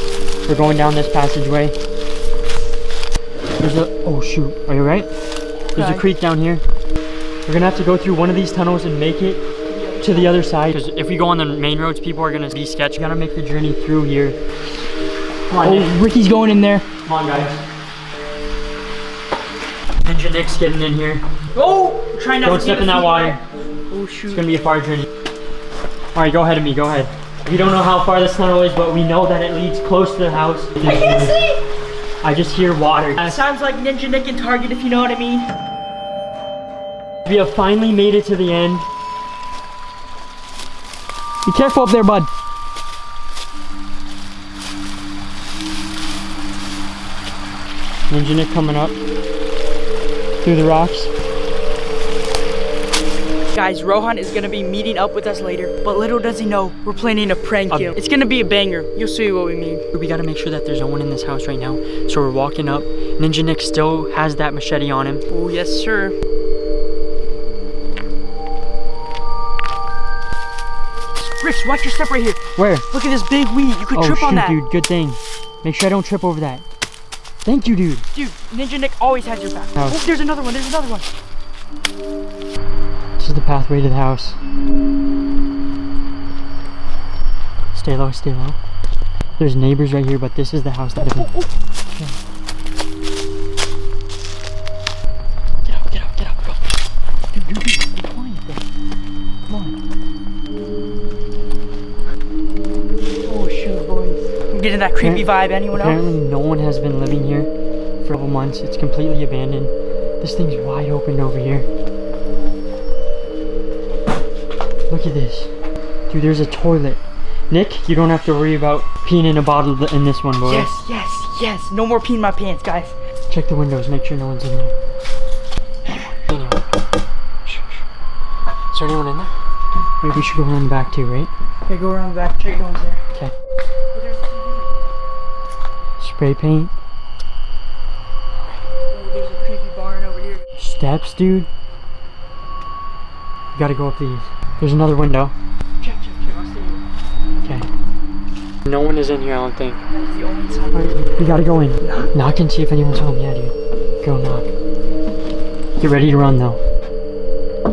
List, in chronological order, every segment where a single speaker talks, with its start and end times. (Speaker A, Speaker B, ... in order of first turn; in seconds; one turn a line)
Speaker A: 0.5-1.7
Speaker A: 3.6-5.1
Speaker B: 5.7-6.0
Speaker A: 5.7-6.6
Speaker A: 7.5-9.4
Speaker B: 9.7-10.4
Speaker A: 10.0-14.4
Speaker A: 15.5-16.0
Speaker B: 15.6-16.9
Speaker A: 17.0-17.6
Speaker A: 20.0-21.2
Speaker B: 21.5-24.4
Speaker A: 22.4-23.4
Speaker A: 24.3-25.1
Speaker A: 26.1-31.4
Speaker B: 30.8-31.6
Speaker A: 32.2-33.4
Speaker B: 33.2-35.5
Speaker A: 37.2-38.9
Speaker A: 41.5-42.3
Speaker A: 48.1-49.0
Speaker A: 50.4-51.1
Speaker B: 53.5-59.8
Speaker A: 57.7-57.9
Speaker A: 59.9-65.2
Speaker B: 65.3-66.2
Speaker B: 71.2-74.6
Speaker A: 72.5-72.8
Speaker A: 73.9-76.6
Speaker A: 77.4-78.1
Speaker B: 78.1-81.1
Speaker A: 83.2-84.4
Speaker A: 87.7-88.6
Speaker A: 89.4-91.3
Speaker B: 91.0-91.5
Speaker A: 95.7-96.6
Speaker A: 97.3-98.6
Speaker A: 99.5-99.7
Speaker B: 103.2-106.0
Speaker A: 105.0-107.5
Speaker A: 108.0-111.7
Speaker A: 114.9-115.5
Speaker A: 116.1-120.7
Speaker B: 120.4-122.9
Speaker A: 123.3-124.7
Speaker A: 126.2-126.6
Speaker A: 127.4-127.8
Speaker A: 128.7-129.3
Speaker A: 130.0-131.3
Speaker B: 131.7-133.0
Speaker B: 133.9-134.7
Speaker A: 136.0-136.7
Speaker B: 138.9-140.5
Speaker A: 140.6-141.5
Speaker A: 143.5-145.3
Speaker B: 145.8-146.8
Speaker A: 148.7-149.8
Speaker B: 149.9-151.0
Speaker A: 150.7-154.5
Speaker B: 151.8-152.1
Speaker A: 155.8-156.6